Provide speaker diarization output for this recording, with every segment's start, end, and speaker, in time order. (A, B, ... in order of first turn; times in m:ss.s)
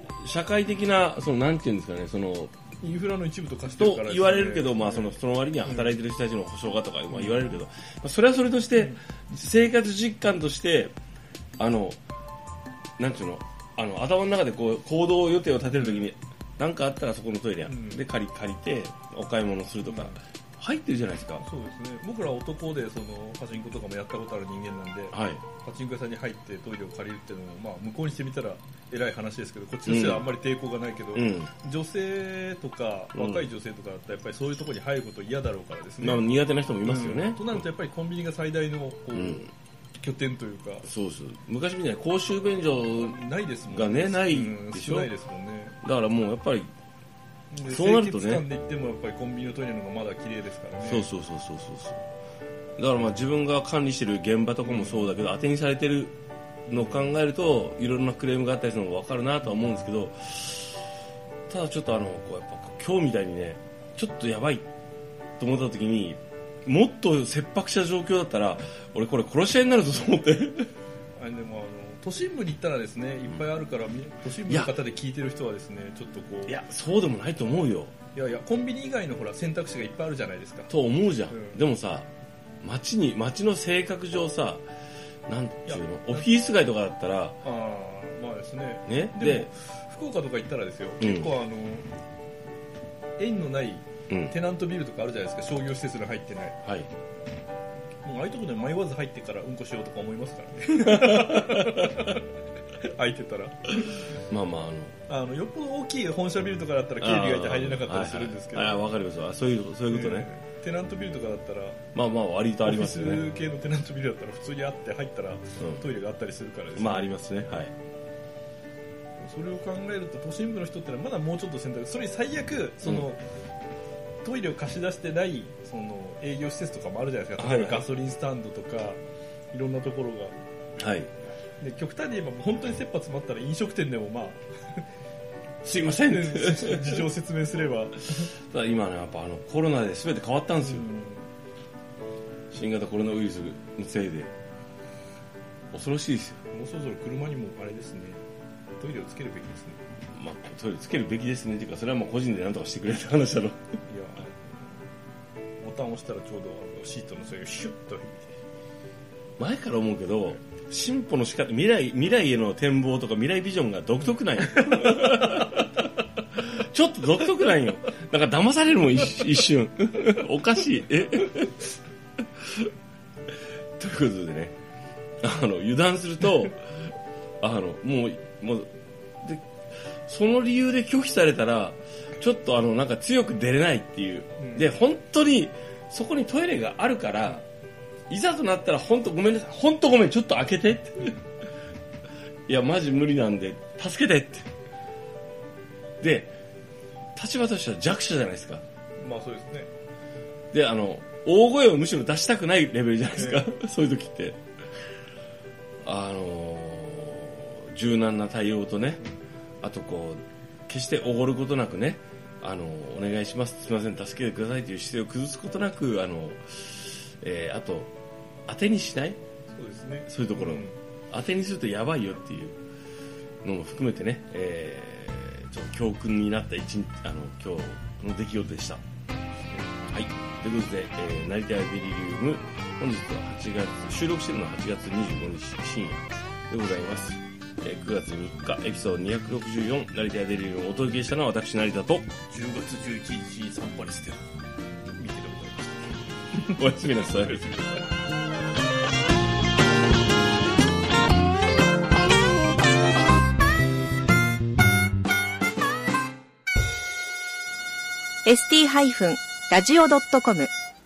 0:00.2-0:02.5 A
0:02.8-0:06.0 B
0:03.7-0:10.9 A
0:07.1-0:07.5 B
0:11.6-0:12.0 A
0:13.0-0:21.4 A
0:15.7-0:16.1 B
0:17.7-0:18.0 B
0:19.8-0:20.2 B
0:21.4-0:36.2 B
0:25.1-0:25.4 A
0:29.8-0:30.3 A
0:31.1-0:31.5 A
0:33.1-0:33.5 A
0:36.0-0:37.6 A
0:36.8-0:40.9 B
0:39.1-0:39.5 A
0:40.8-0:45.1 A
0:43.0-0:45.8 B
0:45.8-0:46.7 A
0:47.5-0:51.1 B
0:47.7-0:48.4 A
0:50.8-0:52.0 A
0:52.8-0:56.1 A
0:54.6-0:55.0 B
0:56.7-1:00.8 A
1:01.5-1:04.7 A
1:05.4-1:10.7 A
1:11.2-1:16.6 B
1:14.5-1:14.7 A
1:16.4-1:17.9 A
1:18.1-1:20.7 B
1:20.7-1:22.1 A
1:21.3-1:21.6 B
1:22.6-1:24.6 A
1:25.3-1:27.4 A
1:25.7-1:26.3 B
1:27.4-1:31.9 B
1:28.9-1:29.5 A
1:31.0-1:31.3 A
1:33.2-1:36.6 B
1:36.6-1:36.9 A
1:38.0-1:42.2 B
1:40.9-1:42.1 A
1:42.8-1:44.1 B
1:44.3-1:45.0 A
1:45.1-1:48.9 B
1:47.0-1:50.3 A
1:49.9-1:51.8 B
1:51.9-1:53.2 A
1:52.6-1:57.2 B
1:55.6-1:55.8 A
1:56.8-1:57.7 A
1:59.2-2:03.2 B
2:04.2-2:09.0 B
2:07.4-2:07.8 A
2:09.5-2:10.3 B
2:10.8-2:11.1 A
2:11.6-2:14.8 B
2:15.6-2:17.1 A
2:15.9-2:18.3 B
2:18.5-2:20.9 A
2:20.6-2:21.3 B
2:22.5-2:24.3 A
2:25.7-2:26.4 A
2:26.5-2:28.2 B
2:28.8-2:29.8 B
2:30.1-2:33.6 A
2:33.9-2:34.8 B
2:35.6-2:38.3 B
2:39.4-2:51.6 A
2:44.8-2:45.6 B
2:52.4-2:52.7 A
2:53.8-2:54.5 A
2:55.2-2:56.8 A
2:57.4-2:58.7 A
3:00.0-3:07.4 A
3:04.4-3:04.7 B
3:08.1-3:11.2 A
3:11.0-3:11.2 B
3:12.5-3:14.5 A
3:16.0-3:16.3 A
3:17.2-3:18.6 A
3:19.0-3:19.7 B
3:20.5-3:24.4 A
3:23.1-3:23.5 B
3:25.8-3:29.0 A
3:29.6-3:37.9 A
3:38.5-3:39.2 A
3:39.5-3:40.8 B
3:40.1-3:42.6 A
3:43.4-3:48.8 A
3:49.5-3:49.8 B
3:49.9-4:02.1 A
4:02.3-4:04.2 B
4:04.9-4:07.9 B
4:06.4-4:07.5 A
4:18.2-4:20.5 C